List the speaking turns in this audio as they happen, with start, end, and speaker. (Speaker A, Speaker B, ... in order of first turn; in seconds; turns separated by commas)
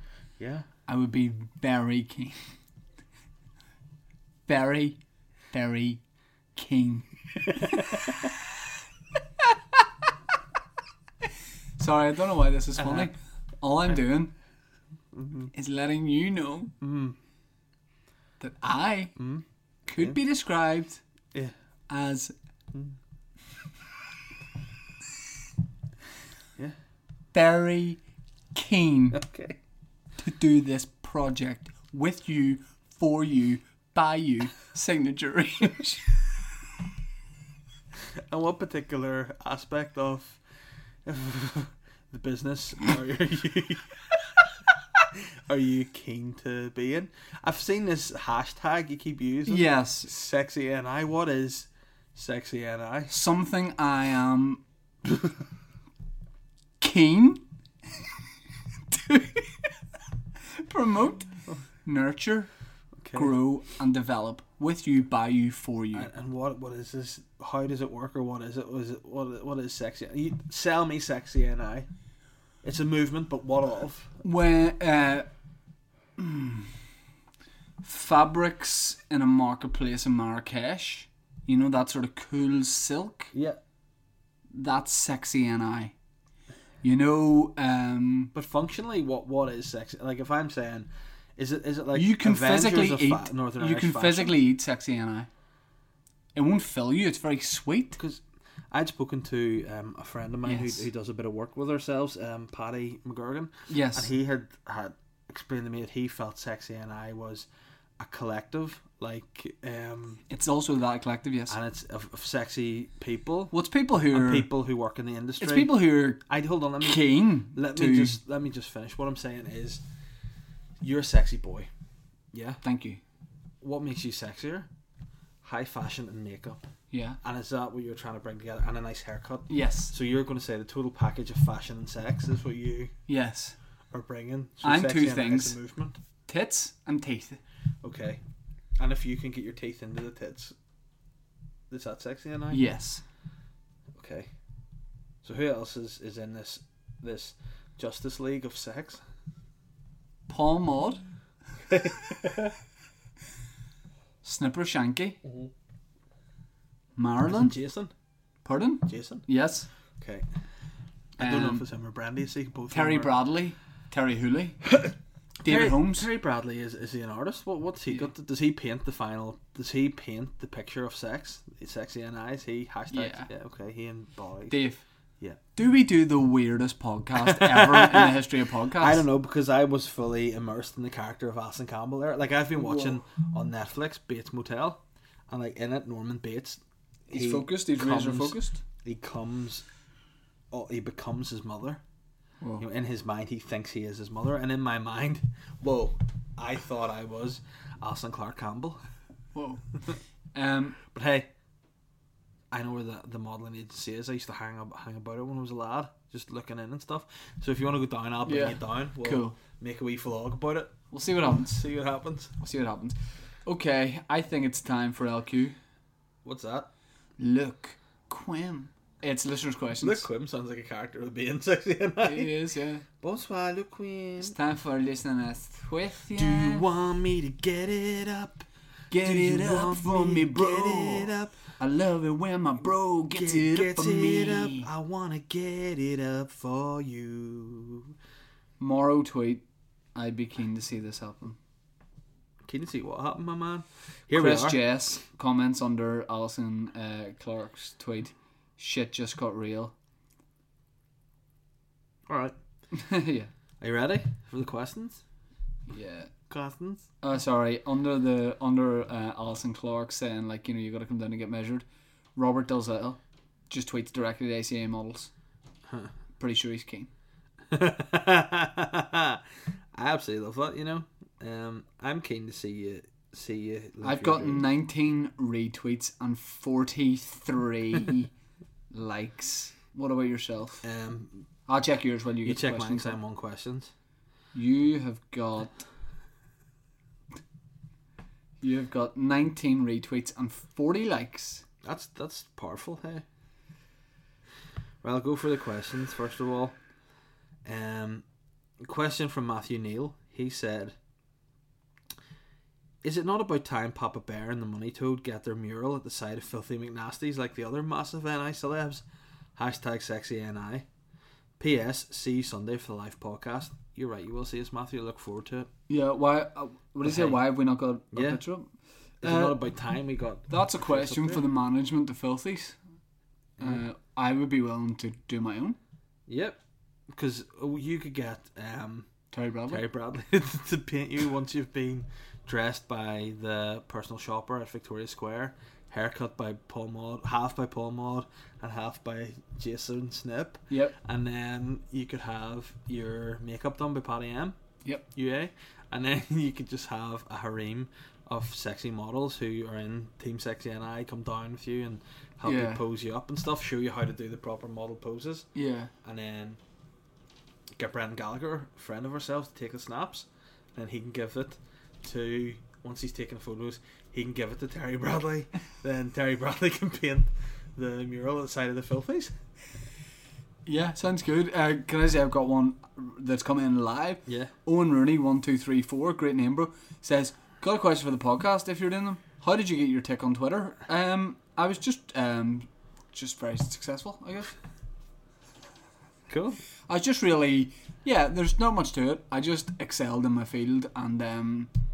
Speaker A: 0.4-0.7, Speaker B: 0.9-2.4, Speaker B: 4.5-5.0, Speaker B: 5.5-6.0, Speaker B: 6.5-8.3, Speaker B: 11.8-14.3, Speaker A: 12.8-13.1, Speaker A: 15.1-15.5, Speaker B: 15.5-16.7, Speaker A: 16.8-17.1, Speaker B: 18.4-19.1, Speaker A: 19.2-19.4, Speaker B: 19.9-21.0, Speaker B: 21.9-22.3, Speaker B: 27.3-28.0, Speaker B: 28.5-29.2, Speaker A: 29.1-29.6, Speaker B: 30.2-36.1, Speaker A: 38.3-40.4, Speaker A: 41.0-43.9, Speaker A: 45.1-53.1, Speaker B: 49.5-50.1, Speaker B: 53.1-54.6, Speaker B: 56.8-57.4, Speaker B: 58.9-59.5, Speaker B: 60.6-61.3, Speaker B: 61.8-62.5, Speaker A: 63.0-63.3, Speaker B: 63.1-66.1, Speaker A: 65.9-71.9, Speaker A: 72.6-74.2, Speaker B: 74.2-75.3, Speaker B: 76.2-76.7, Speaker B: 77.8-83.3, Speaker A: 83.3-83.6, Speaker B: 84.5-85.9, Speaker B: 86.8-88.3, Speaker A: 88.3-94.4, Speaker B: 91.9-95.3, Speaker B: 96.3-98.0, Speaker A: 98.0-107.5, Speaker B: 100.4-100.9, Speaker B: 103.7-104.1, Speaker A: 108.0-110.2, Speaker B: 110.3-111.6, Speaker A: 111.5-113.5, Speaker B: 113.5-114.5, Speaker A: 114.1-119.8, Speaker B: 115.4-116.2, Speaker B: 116.8-118.2, Speaker A: 120.8-121.7, Speaker A: 122.3-122.6, Speaker B: 122.6-123.0, Speaker A: 123.6-124.7, Speaker A: 125.4-126.6, Speaker B: 126.9-127.2, Speaker A: 127.2-132.9, Speaker B: 129.5-129.9, Speaker B: 133.1-133.6, Speaker A: 133.9-136.0, Speaker B: 134.6-135.6, Speaker B: 136.3-137.4, Speaker A: 137.8-138.2, Speaker A: 138.8-140.5, Speaker A: 141.7-142.6, Speaker B: 142.5-143.0, Speaker A: 143.9-144.3, Speaker A: 145.2-149.0, Speaker B: 150.3-151.0, Speaker A: 151.7-152.5, Speaker B: 154.2-155.2, Speaker A: 155.2-155.5, Speaker B: 156.9-157.6, Speaker A: 157.2-157.9, Speaker B: 158.4-159.7, Speaker A: 158.9-159.2, Speaker A: 160.0-160.3, Speaker A: 161.2-163.2, Speaker B: 161.2-161.6, Speaker B: 162.7-164.7, Speaker A: 164.8-174.6, Speaker B: 165.4-166.1, Speaker B: 172.9-173.3, Speaker B: 174.5-174.8, Speaker B: 175.6-179.0, Speaker A: 177.2-178.2, Speaker A: 178.8-189.6, Speaker B: 182.6-182.9, Speaker B: 187.1-188.6, Speaker A: 190.5-191.8, Speaker A: 192.6-198.8, Speaker B: 199.3-199.6, Speaker B: 200.3-200.8, Speaker A: 200.9-201.3, Speaker A: 202.5-212.3, Speaker B: 208.2-209.4, Speaker B: 210.9-211.6, Speaker B: 212.4-215.6, Speaker A: 216.2-216.7, Speaker B: 217.2-220.1, Speaker A: 219.8-222.3, Speaker B: 222.0-222.8, Speaker A: 223.0-224.3, Speaker B: 224.2-226.6, Speaker A: 226.1-228.4, Speaker B: 228.9-234.7, Speaker A: 229.0-231.3, Speaker A: 233.1-237.9, Speaker B: 238.6-239.4, Speaker B: 239.9-241.4, Speaker A: 242.4-244.6, Speaker B: 244.1-249.7, Speaker A: 252.1-252.3, Speaker B: 252.7-253.3, Speaker A: 253.6-255.0, Speaker B: 255.7-256.1, Speaker A: 256.3-256.8, Speaker B: 257.0-261.6, Speaker B: 262.1-263.0, Speaker B: 263.5-265.1, Speaker B: 266.2-266.9, Speaker A: 267.5-269.2, Speaker A: 269.7-274.4, Speaker B: 273.8-278.1, Speaker B: 278.7-280.6, Speaker A: 280.6-281.2, Speaker B: 281.5-283.0, Speaker A: 282.2-283.7, Speaker B: 284.3-285.6, Speaker B: 288.4-291.4, Speaker A: 291.6-293.0, Speaker A: 294.8-296.6, Speaker A: 297.4-298.0, Speaker A: 298.6-300.7, Speaker A: 302.8-308.8, Speaker A: 309.4-310.6, Speaker A: 311.4-315.5, Speaker B: 315.7-318.5, Speaker A: 316.8-317.2, Speaker A: 317.9-318.2, Speaker A: 319.0-321.2, Speaker B: 319.0-319.4, Speaker B: 320.3-322.6, Speaker B: 323.4-325.6, Speaker A: 326.1-326.4, Speaker A: 326.9-328.9, Speaker B: 329.1-329.6, Speaker A: 329.5-344.4, Speaker B: 340.5-340.8, Speaker A: 344.9-355.3, Speaker B: 352.2-352.6, Speaker B: 355.3-355.7, Speaker A: 355.8-356.4, Speaker A: 357.6-369.1, Speaker B: 370.4-384.3, Speaker A: 374.1-374.3, Speaker A: 386.1-386.4, Speaker B: 386.7-391.5